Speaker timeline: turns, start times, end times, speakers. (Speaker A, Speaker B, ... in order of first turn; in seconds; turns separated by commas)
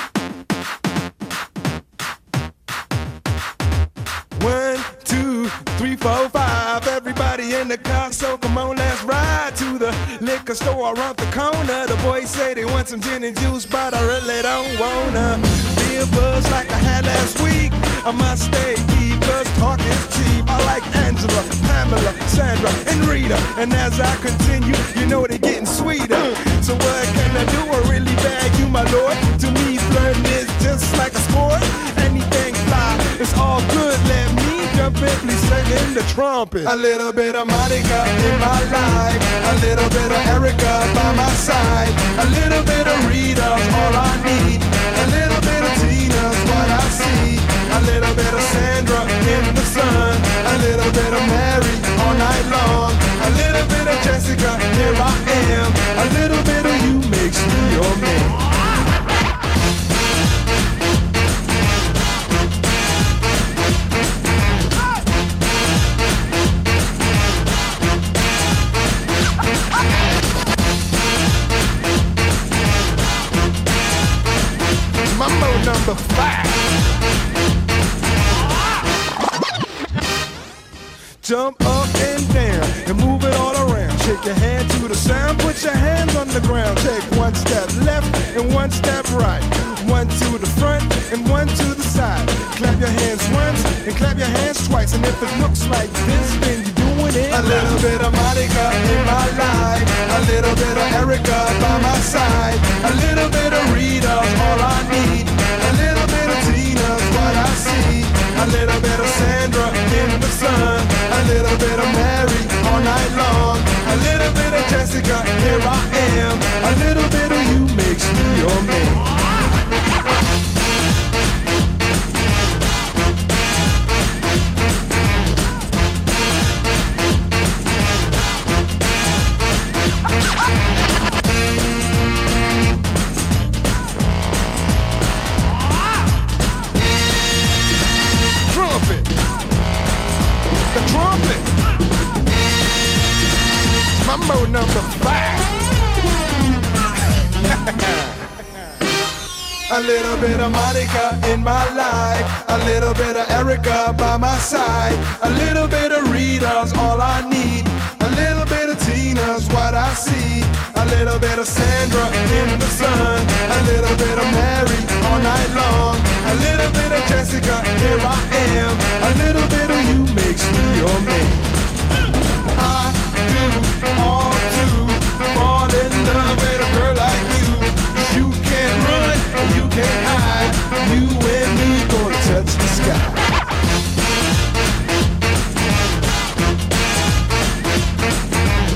Speaker A: 4.3-58.4, Speaker A: 75.0-76.6, Speaker A: 81.2-119.1, Speaker A: 138.5-139.1, Speaker A: 140.7-141.5, Speaker A: 144.0-145.5, Speaker A: 147.5-148.1, Speaker A: 149.7-171.4, Speaker A: 172.5-183.2